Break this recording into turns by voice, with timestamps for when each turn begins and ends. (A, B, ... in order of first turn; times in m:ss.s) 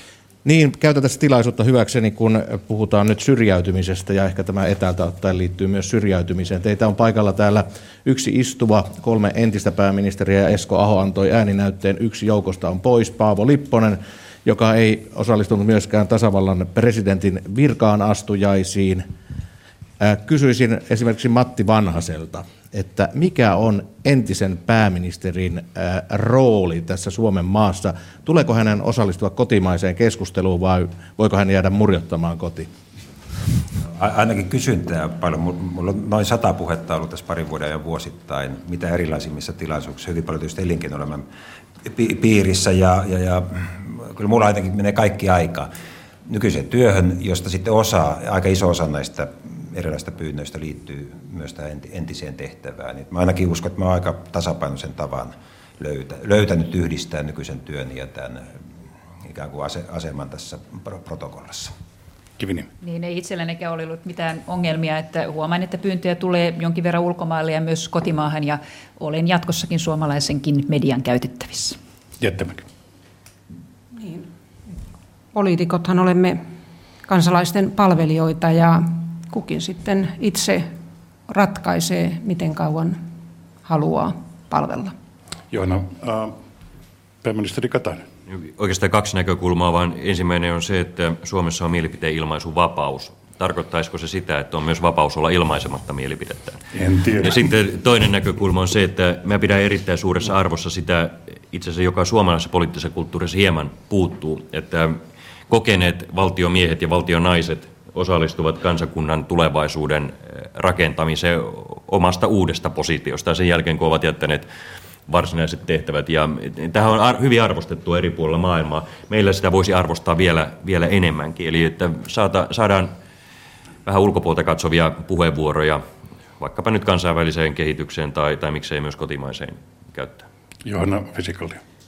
0:00.4-0:19.1 A
0:20.0-0:32.7 A
0:33.9-0:41.2 B
0:41.8-0:45.7 B
0:46.3-0:58.5 B
0:59.2-1:01.7 B
1:02.4-1:02.7 C
1:02.8-1:11.8 D
1:12.2-1:12.6 C
1:14.0-1:14.2 E
1:15.3-1:16.4 E
1:17.1-1:20.7 E
1:21.3-1:23.0 E
1:23.6-1:24.9 E
1:25.5-1:26.4 C
1:27.2-1:28.0 C
1:28.3-1:36.6 F
1:36.7-1:37.4 C
1:37.2-1:54.5 F
1:55.1-2:02.9 F
2:03.8-2:05.8 F
2:06.4-2:10.2 F
2:10.6-2:11.6 C